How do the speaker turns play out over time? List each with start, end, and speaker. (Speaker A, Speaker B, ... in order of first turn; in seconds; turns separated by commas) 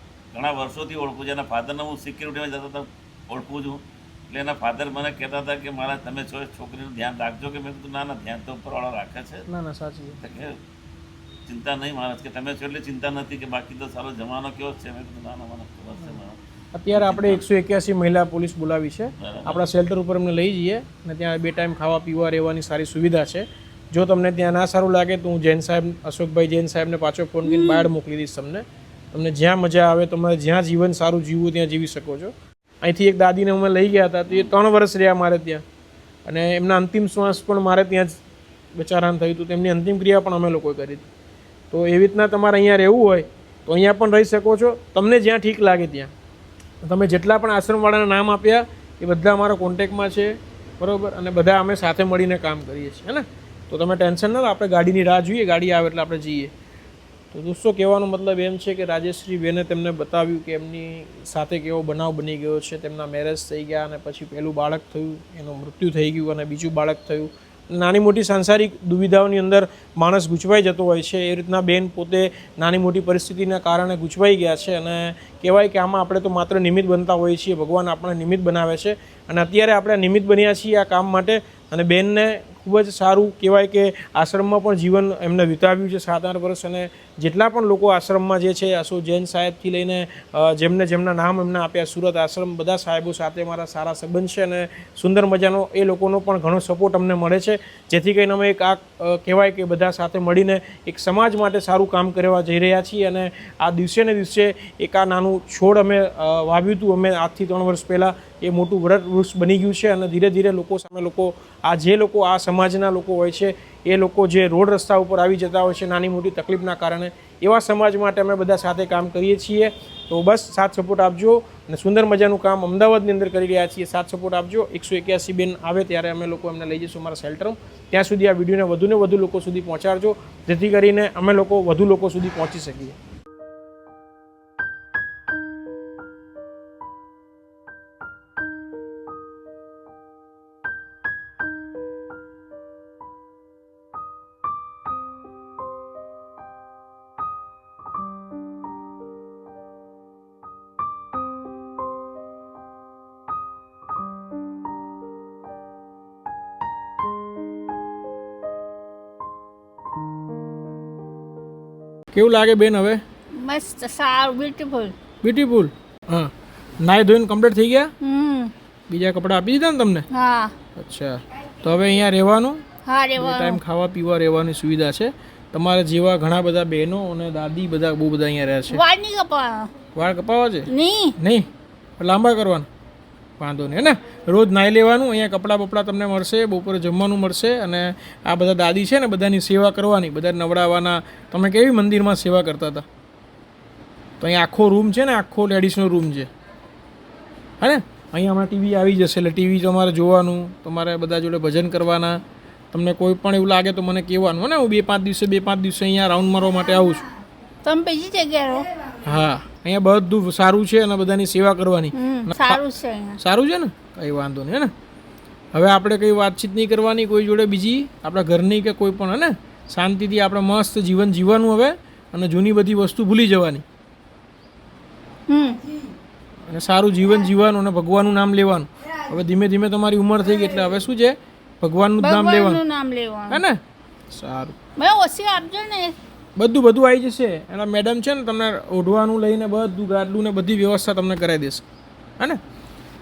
Speaker A: 0.3-9.4, Speaker B: 9.5-10.2, Speaker A: 10.2-10.6, Speaker A: 11.5-16.4, Speaker B: 16.7-35.6, Speaker A: 16.9-17.4, Speaker A: 19.2-19.6, Speaker C: 27.4-27.9, Speaker B: 36.2-38.2, Speaker B: 38.8-41.1, Speaker B: 41.7-46.1, Speaker B: 46.8-56.5, Speaker B: 57.3-133.0, Speaker B: 162.1-163.0, Speaker C: 163.4-164.9, Speaker B: 165.2-167.9, Speaker C: 168.0-168.5, Speaker B: 168.9-170.1, Speaker C: 170.1-170.5, Speaker B: 170.8-172.6, Speaker C: 172.8-173.6, Speaker B: 173.2-178.8, Speaker C: 178.7-179.7, Speaker B: 179.9-180.7, Speaker C: 180.7-181.2, Speaker B: 181.2-181.5, Speaker B: 182.0-182.7, Speaker B: 183.4-192.9, Speaker B: 194.2-196.3, Speaker B: 197.6-202.2, Speaker B: 202.7-207.1, Speaker C: 207.6-208.7, Speaker B: 209.0-212.6, Speaker C: 211.9-213.2, Speaker B: 213.2-214.7, Speaker B: 215.5-223.6, Speaker C: 225.3-225.6, Speaker B: 226.5-232.6, Speaker C: 232.0-233.4, Speaker B: 233.3-234.6, Speaker C: 234.8-235.9, Speaker B: 236.4-241.6